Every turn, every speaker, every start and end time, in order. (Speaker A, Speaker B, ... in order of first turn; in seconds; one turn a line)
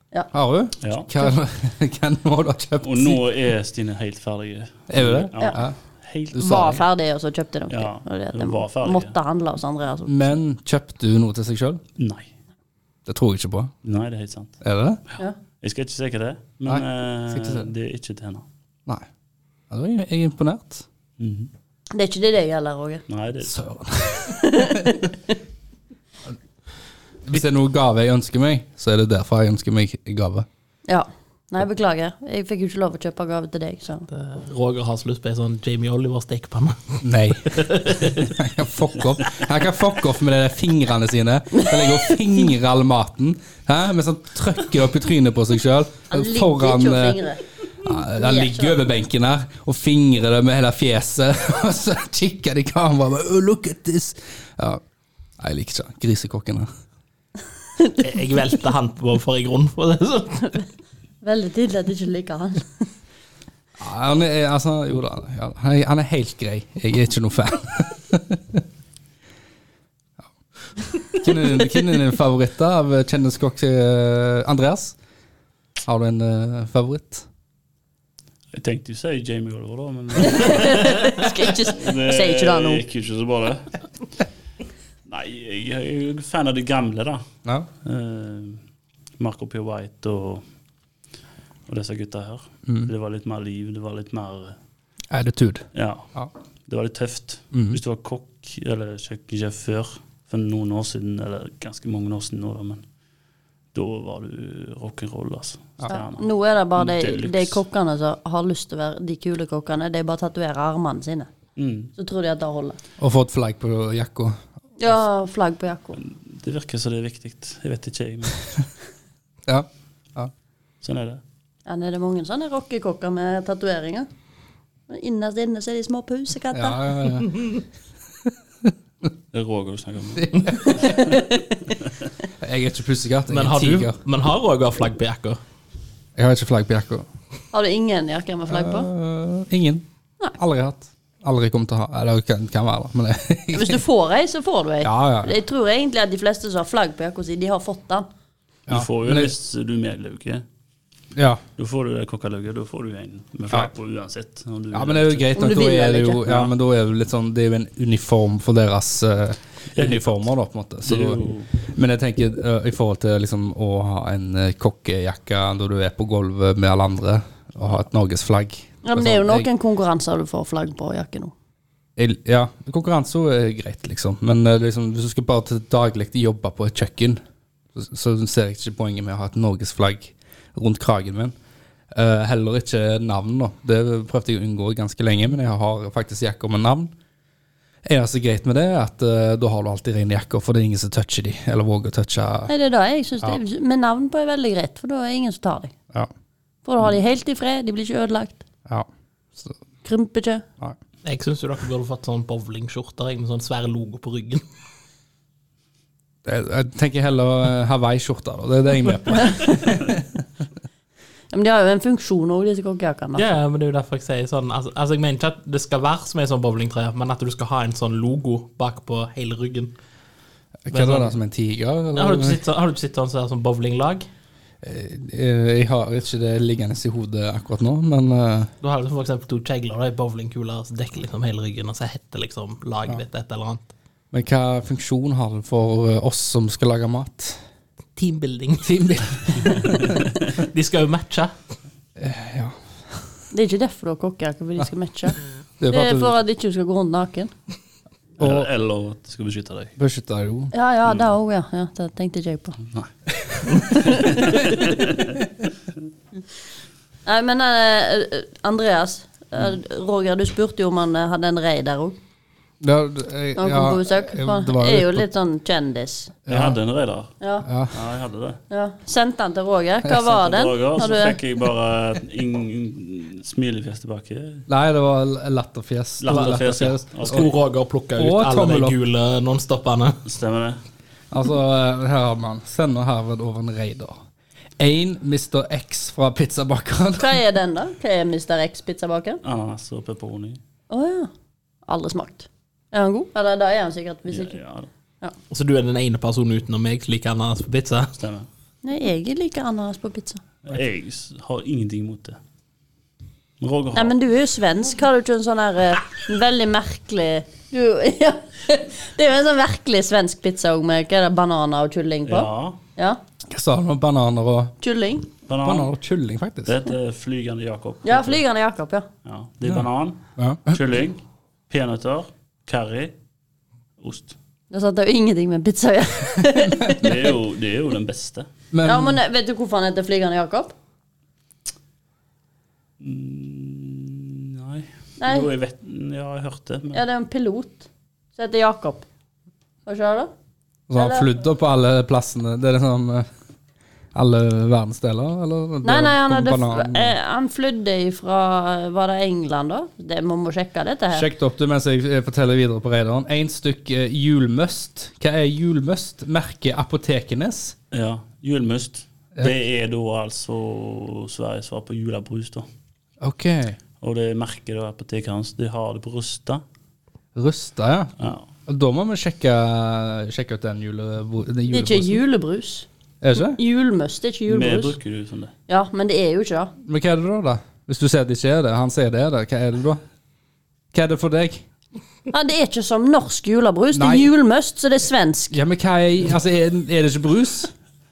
Speaker A: 0.3-3.2
Speaker B: 0.8-1.1
Speaker B: 2.8-6.7
Speaker A: 4.9-5.8
Speaker A: 6.3-6.8
Speaker C: 6.4-10.3
Speaker B: 7.7-9.1
Speaker A: 10.1-11.8
Speaker B: 12.0-12.3
Speaker A: 13.1-13.7
Speaker B: 13.8-14.6
Speaker A: 14.6-15.0
Speaker B: 15.1-18.4
Speaker A: 16.7-17.7
Speaker A: 19.7-20.9
Speaker B: 21.2-21.5
Speaker C: 21.9-23.0
Speaker B: 23.1-23.6
Speaker A: 23.4-25.1
Speaker C: 24.3-25.1
Speaker A: 27.2-30.5
Speaker C: 30.9-34.1
Speaker D: 34.1-38.3
Speaker A: 37.0-47.2
Speaker C: 41.6-42.0
Speaker C: 46.1-47.4
Speaker A: 47.8-54.8
Speaker C: 48.0-48.8
Speaker A: 55.4-56.7
Speaker D: 58.0-60.6
Speaker C: 61.2-62.9
Speaker A: 63.8-68.6
Speaker A: 71.1-75.0
Speaker A: 75.8-77.3
Speaker B: 78.5-83.8
Speaker C: 80.2-82.8
Speaker B: 85.1-87.2
Speaker B: 87.8-88.6
Speaker B: 89.2-90.4
Speaker B: 91.7-94.6
Speaker A: 95.1-96.3
Speaker B: 95.7-96.1
Speaker B: 96.7-102.8
Speaker A: 97.5-97.8
Speaker B: 103.7-107.6
Speaker C: 105.9-111.3
Speaker B: 111.6-111.9
Speaker C: 112.0-112.8
Speaker A: 113.0-114.4
Speaker C: 114.8-116.0
Speaker B: 116.0-118.6
Speaker A: 119.5-120.3
Speaker B: 120.8-121.2
Speaker C: 121.7-124.1
Speaker C: 124.9-126.9
Speaker A: 126.5-127.6
Speaker A: 128.2-128.7
Speaker B: 129.3-131.2
Speaker A: 130.2-131.2
Speaker C: 130.8-131.2
Speaker A: 132.4-134.0
Speaker D: 133.3-135.4
Speaker A: 136.2-137.1
Speaker C: 137.5-138.9
Speaker A: 138.5-139.8
Speaker A: 140.4-143.8
Speaker C: 143.5-148.1
Speaker A: 144.8-145.3
Speaker A: 148.7-149.3
Speaker B: 148.7-150.4
Speaker A: 151.2-151.4
Speaker B: 151.6-155.3
Speaker A: 154.7-169.5
Speaker C: 155.4-156.2
Speaker B: 156.3-156.5
Speaker B: 159.7-160.2
Speaker B: 160.8-161.5
Speaker C: 168.8-171.3
Speaker A: 172.0-177.2
Speaker A: 177.8-181.3
Speaker A: 181.9-186.9
Speaker A: 187.8-192.5
Speaker C: 192.5-195.7
Speaker C: 196.7-198.4
Speaker C: 199.8-200.4
Speaker D: 201.0-204.4
Speaker A: 206.2-210.2
Speaker C: 211.3-213.3
Speaker D: 213.2-219.7
Speaker A: 220.7-222.4
Speaker D: 220.7-221.2
Speaker D: 221.9-224.1
Speaker A: 224.6-228.5
Speaker D: 228.6-233.7
Speaker A: 234.1-237.4
Speaker D: 238.0-238.9
Speaker A: 238.6-240.0
Speaker D: 239.4-241.3
Speaker A: 242.0-243.1
Speaker C: 243.3-245.2
Speaker A: 245.6-246.2
Speaker C: 245.7-247.3
Speaker B: 248.2-249.7
Speaker A: 248.2-248.5
Speaker A: 249.8-250.5
Speaker C: 250.5-252.6
Speaker B: 252.7-255.2
Speaker C: 253.7-254.5
Speaker C: 257.1-262.0
Speaker A: 262.6-265.1
Speaker C: 263.4-266.1
Speaker A: 266.3-266.6
Speaker B: 266.3-267.2
Speaker C: 267.2-267.5
Speaker A: 267.4-267.8
Speaker B: 267.7-268.4
Speaker C: 268.5-271.2
Speaker B: 270.0-274.5
Speaker A: 274.5-277.3
Speaker B: 276.0-277.3
Speaker D: 276.1-280.0
Speaker A: 278.0-278.8
Speaker B: 280.1-280.6
Speaker A: 281.1-284.0
Speaker A: 284.6-287.2
Speaker C: 287.0-289.2
Speaker B: 289.2-290.4
Speaker C: 290.7-291.1
Speaker C: 291.7-294.4
Speaker B: 294.1-294.7
Speaker D: 295.3-297.9
Speaker B: 298.0-298.3
Speaker C: 298.6-300.2
Speaker B: 300.4-302.2
Speaker B: 303.4-304.0
Speaker C: 303.7-313.0
Speaker B: 312.1-312.6
Speaker A: 313.3-314.5
Speaker C: 314.6-315.1
Speaker B: 315.3-315.7
Speaker A: 315.4-316.6
Speaker B: 316.4-318.2
Speaker C: 317.8-318.9
Speaker B: 319.1-322.9
Speaker A: 320.2-320.6
Speaker B: 323.8-324.2
Speaker C: 324.5-327.1
Speaker B: 326.8-328.3
Speaker A: 328.5-329.0
Speaker C: 328.6-330.5
Speaker B: 332.8-336.8
Speaker C: 335.0-335.3
Speaker C: 336.7-338.9
Speaker C: 339.7-340.1
Speaker A: 340.7-343.1
Speaker C: 340.8-341.1
Speaker A: 343.9-347.0
Speaker C: 345.6-351.1
Speaker A: 350.9-357.6
Speaker B: 357.7-362.5
Speaker A: 363.0-363.6
Speaker B: 363.8-366.4
Speaker A: 367.1-372.0
Speaker B: 368.0-368.2
Speaker C: 371.5-374.8
Speaker A: 373.0-373.4
Speaker B: 374.3-375.3
Speaker C: 375.5-376.5
Speaker A: 376.6-379.8
Speaker A: 380.7-381.4
Speaker C: 382.1-385.4
Speaker A: 383.7-384.1
Speaker A: 385.3-387.5